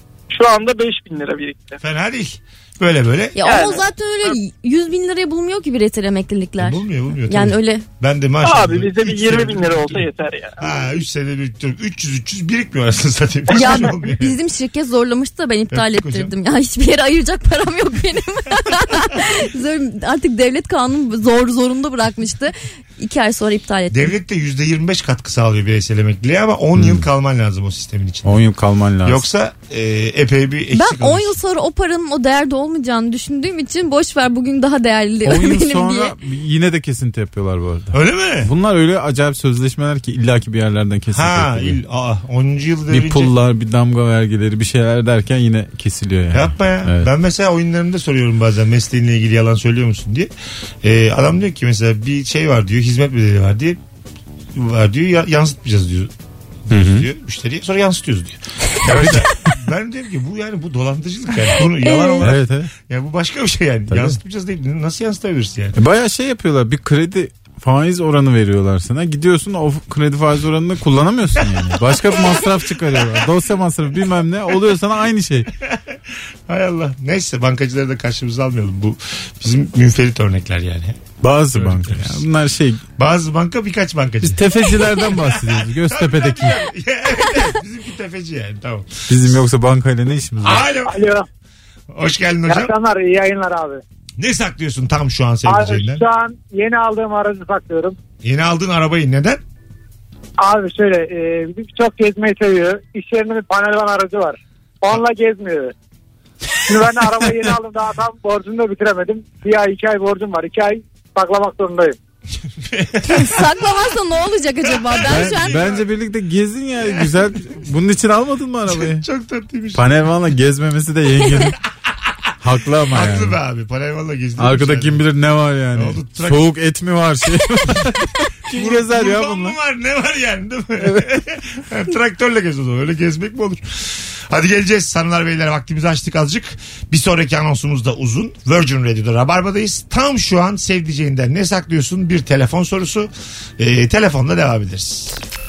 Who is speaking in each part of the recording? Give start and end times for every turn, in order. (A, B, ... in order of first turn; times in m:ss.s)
0:00.3-0:01.8 A
0:01.8-0:03.4 B
0:03.4-0:07.8 C
0:03.4-0:03.8 A
0:06.6-0:10.0 B
0:08.4-0:10.6 A
0:10.6-0:14.4 B
0:13.5-0:24.1 C
0:15.7-0:16.3 B
0:23.9-0:28.4 B
0:26.8-0:27.1 D
0:28.2-0:29.2 D
0:29.0-0:31.4 B
0:30.7-0:36.2 C
0:35.2-0:41.8 D
0:37.9-0:38.5 B
0:41.1-0:43.3 B
0:42.9-0:47.1 D
0:46.3-0:50.3 B
0:50.8-0:53.8 B
0:54.5-0:56.1 B
0:56.7-1:05.8 B
0:56.7-0:57.1 D
0:58.8-0:59.5 D
1:01.8-1:02.3 C
1:02.2-1:02.7 D
1:03.9-1:04.2 D
1:05.8-1:15.5 D
1:11.6-1:11.9 B
1:12.8-1:13.2 B
1:15.6-1:22.2 B
1:21.2-1:22.8 D
1:23.0-1:29.4 B
1:24.2-1:26.6 D
1:29.1-1:30.7 D
1:30.4-1:31.1 B
1:30.8-1:31.2 E
1:31.9-1:32.7 B
1:32.5-1:33.8 E
1:34.2-1:36.0 B
1:35.4-1:38.0 E
1:38.2-1:39.4 B
1:40.4-1:45.7 E
1:46.7-1:52.0 E
1:52.6-1:53.5 B
1:53.1-1:55.6 C
1:54.6-1:55.9 B
1:55.1-1:59.0 D
1:56.8-1:57.2 B
1:58.7-1:59.9 B
1:59.8-2:01.6 D
2:02.4-2:03.4 D
2:02.9-2:05.0 B
2:04.4-2:09.6 D
2:05.8-2:06.5 B
2:08.5-2:25.2 B